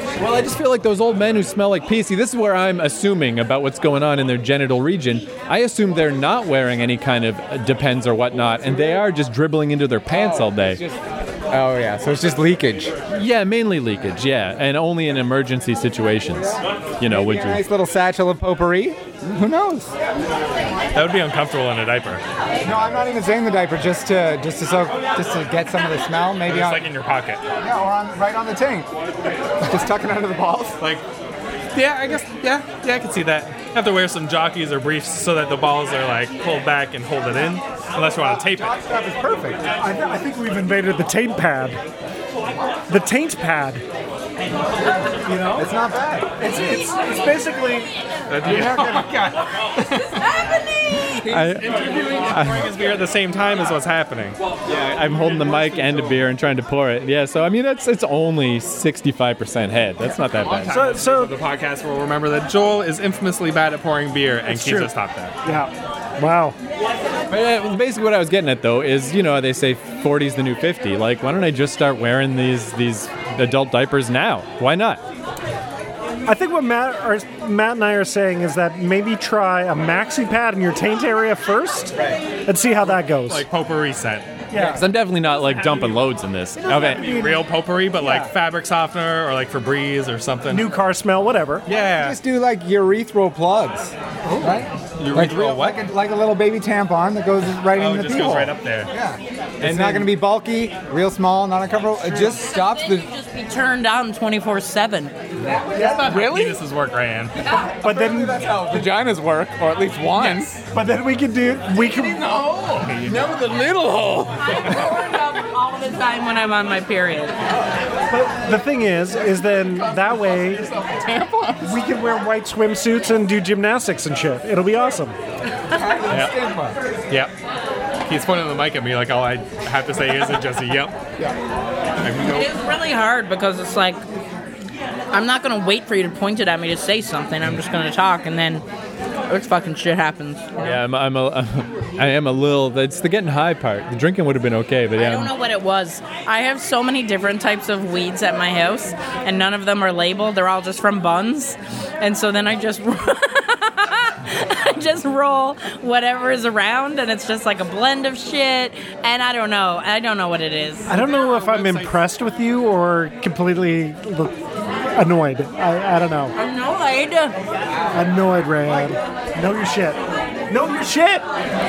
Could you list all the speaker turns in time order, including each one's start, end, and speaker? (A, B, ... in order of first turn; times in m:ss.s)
0:00.2-0:10.8 A
0:10.1-0:12.9 B
0:13.1-0:17.6 A
0:16.3-0:19.9 B
0:20.9-0:22.2 C
0:22.6-0:26.8 B
0:26.4-0:27.4 C
0:27.6-0:28.9 B
0:29.6-0:30.8 B
0:30.8-0:31.0 C
0:31.7-0:38.7 C
0:38.1-0:39.6 B
0:39.8-0:41.8 D
0:42.9-0:43.8 D
0:45.2-0:45.7 D
0:45.5-0:46.4 B
0:46.4-0:47.9 D
0:48.3-0:50.2 C
0:48.5-0:49.0 D
0:50.2-0:51.0 E
0:51.0-0:54.4 C
0:51.2-0:51.8 A
0:52.3-0:52.7 A
0:54.7-1:00.9 A
0:55.4-0:55.8 C
1:00.2-1:05.4 C
1:00.7-1:01.4 D
1:04.5-1:04.9 D
1:05.4-1:06.6 D
1:07.3-1:15.0 A
1:16.2-1:23.5 D
1:23.2-1:24.4 C
1:24.5-1:24.9 D
1:24.5-1:27.1 A
1:26.6-1:28.3 D
1:26.7-1:30.7 C
1:30.5-1:31.7 D
1:31.7-1:32.2 C
1:32.0-1:43.1 B
1:35.0-1:35.8 C
1:37.7-1:38.9 C
1:39.6-1:40.1 A
1:42.0-1:42.3 D
1:42.2-1:45.1 E
1:45.4-1:46.6 B
1:45.7-1:47.4 C
1:47.6-1:50.6 B
1:47.8-1:48.4 D
1:50.1-1:50.6 C
1:50.7-1:52.3 D
1:51.7-1:54.9 B
1:52.8-1:53.3 C
1:54.4-1:57.4 E
1:58.1-2:00.6 D
1:59.9-2:00.2 C
2:00.6-2:01.8 B
2:00.8-2:01.2 C
2:01.6-2:05.2 D
2:05.7-2:06.8 B
2:08.1-2:11.0 C
2:12.0-2:12.5 C
2:12.2-2:14.0 E
2:15.1-2:18.6 E
2:19.3-2:20.8 E
2:20.6-2:25.3 A
2:25.0-2:40.9 E
2:40.9-2:46.3 D
2:41.0-2:42.0 C
2:46.3-2:47.4 E
2:47.9-2:51.2 D